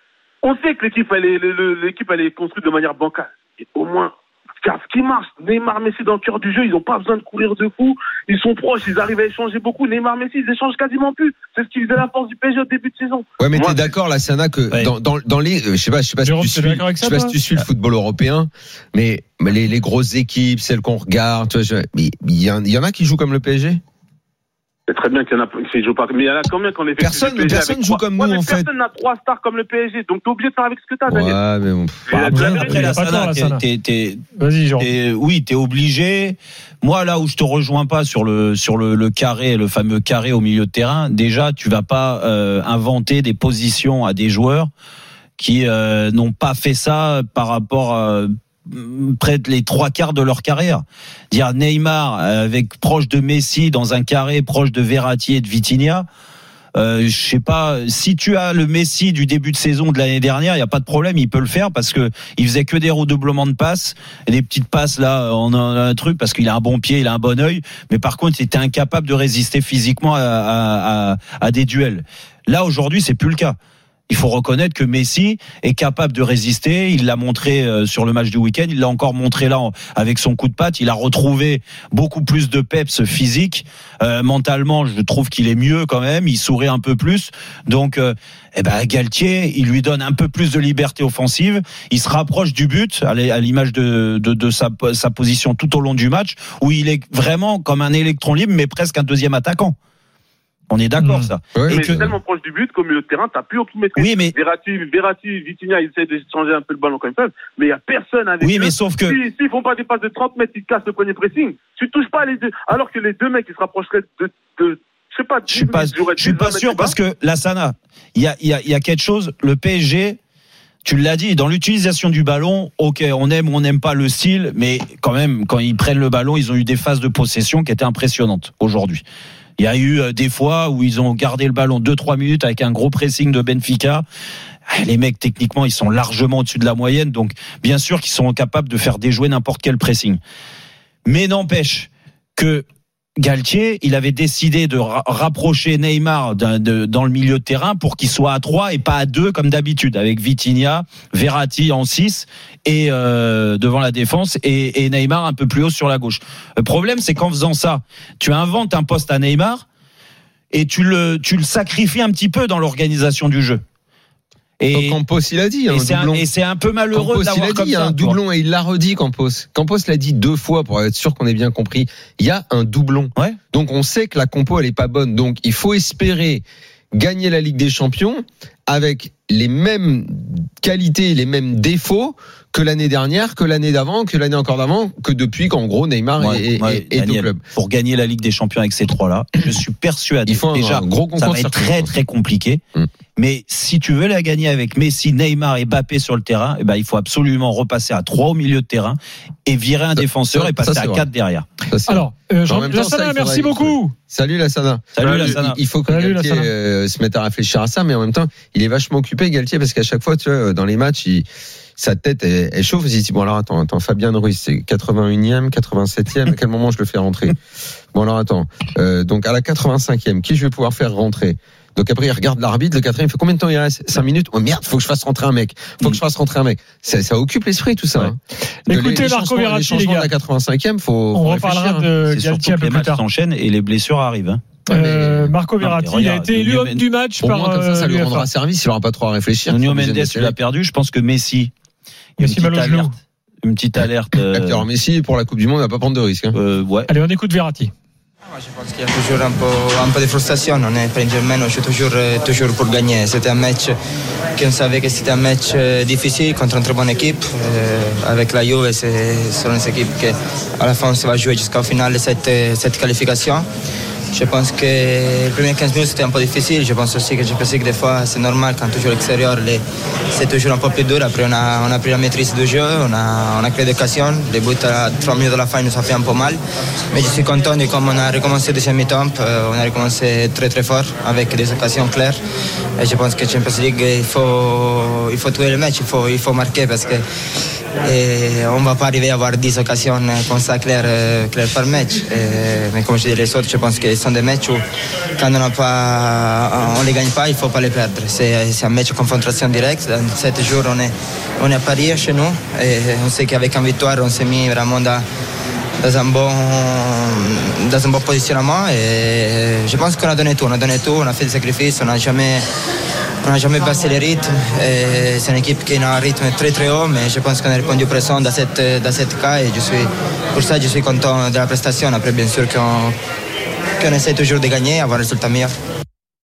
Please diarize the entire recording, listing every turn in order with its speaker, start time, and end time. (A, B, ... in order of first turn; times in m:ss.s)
0:00.4-0:13.9 A
0:13.4-0:23.8 B
0:16.2-0:17.4 C
0:24.9-0:31.4 A
0:27.0-0:28.6 B
0:31.1-0:32.6 B
0:32.1-0:32.9 A
0:32.1-0:33.6 C
0:32.2-0:34.2 D
0:34.4-0:34.9 C
0:34.8-0:44.7 D
0:45.4-0:56.0 D
0:56.8-1:13.6 D
1:14.1-1:39.8 D
1:40.7-1:42.1 D
1:41.0-1:41.3 C
1:41.5-1:42.1 B
1:41.7-1:56.9 A
1:44.0-1:44.3 D
1:48.4-1:49.2 D
1:55.5-2:00.2 D
2:00.8-2:09.0 D
2:09.6-2:14.0 D
2:14.7-2:20.2 D
2:21.0-2:22.6 D
2:23.2-2:39.6 D
2:40.5-2:43.6 D
2:44.6-2:45.0 D
2:44.7-2:46.2 B
2:45.7-2:48.2 D
2:46.9-2:56.4 B
2:56.9-3:07.4 B
3:06.2-3:12.6 D
3:10.3-3:11.9 B
3:13.2-3:21.4 D
3:20.0-3:21.0 B
3:21.7-3:31.2 B
3:21.9-3:23.9 C
3:25.0-3:25.6 D
3:25.0-3:25.4 A
3:25.9-3:26.5 C
3:31.8-3:37.4 B
3:37.9-3:51.9 B
3:48.6-3:50.1 C
3:51.1-3:53.0 C
3:52.0-3:54.4 D
3:54.7-3:55.3 B
3:54.7-3:58.3 C
3:55.6-3:56.8 D
3:57.2-4:00.3 B
3:59.5-4:01.5 D
4:02.2-4:02.9 C
4:02.2-4:04.6 D
4:04.3-4:06.4 B
4:06.3-4:06.9 D
4:06.9-4:07.7 C
4:08.4-4:13.8 E
4:14.4-4:23.4 E
4:24.1-4:42.2 E
4:42.8-4:47.0 E
4:47.8-4:54.6 E
4:55.2-5:05.0 E
5:05.8-5:12.4 E
5:13.2-5:22.9 E
5:23.8-5:25.5 E